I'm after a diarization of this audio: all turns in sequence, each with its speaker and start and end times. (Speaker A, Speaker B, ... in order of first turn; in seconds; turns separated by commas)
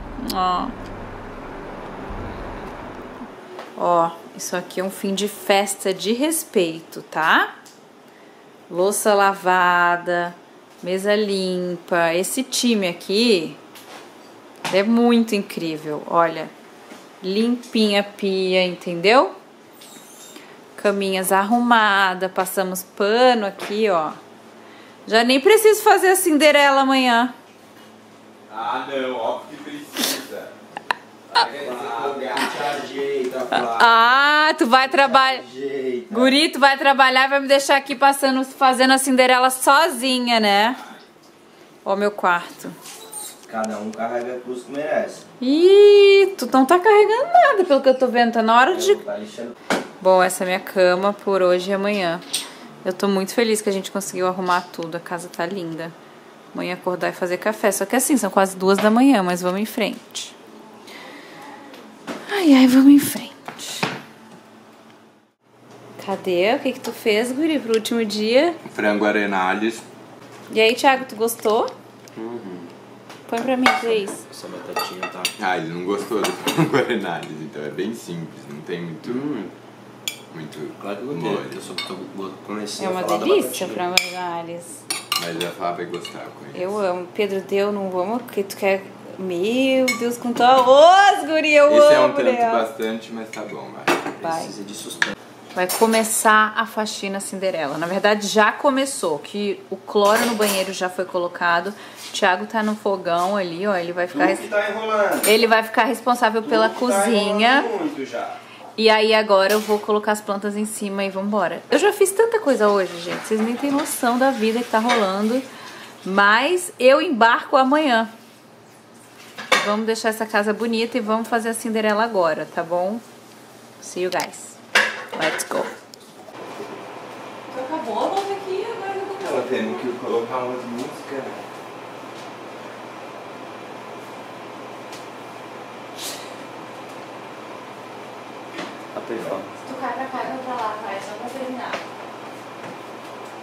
Speaker A: 0.2-0.7, Speaker A: 3.8-7.5, Speaker A: 8.7-13.6, Speaker A: 14.7-16.5, Speaker A: 17.2-19.3, Speaker A: 20.8-24.2, Speaker A: 25.1-27.3, Speaker B: 28.5-30.5, Speaker B: 31.3-32.8, Speaker C: 31.4-34.0, Speaker A: 33.6-35.4, Speaker C: 34.8-36.4, Speaker A: 36.1-40.8, Speaker A: 41.8-42.8, Speaker C: 43.4-45.2, Speaker A: 45.4-49.0, Speaker C: 48.7-49.5, Speaker A: 50.0-52.2, Speaker A: 52.8-55.9, Speaker A: 56.5-60.3, Speaker A: 62.3-63.9, Speaker A: 66.0-68.6, Speaker B: 68.6-69.8, Speaker A: 70.5-71.7, Speaker C: 72.1-72.7, Speaker A: 73.3-74.2, Speaker C: 74.3-75.3, Speaker B: 75.3-79.2, Speaker C: 79.0-79.5, Speaker B: 80.3-81.6, Speaker C: 80.8-83.8, Speaker A: 82.8-84.8, Speaker B: 85.2-86.6, Speaker A: 86.5-92.7, Speaker B: 91.7-94.0, Speaker A: 94.2-94.5, Speaker C: 94.2-95.1, Speaker A: 95.5-104.5, Speaker C: 104.1-105.5, Speaker A: 105.2-107.7, Speaker C: 106.4-108.4, Speaker A: 108.8-115.5, Speaker A: 116.0-118.1, Speaker A: 119.5-123.0, Speaker A: 123.8-124.6, Speaker A: 125.1-125.7, Speaker A: 127.5-129.8, Speaker B: 129.2-131.4, Speaker C: 138.9-139.5, Speaker A: 139.6-141.8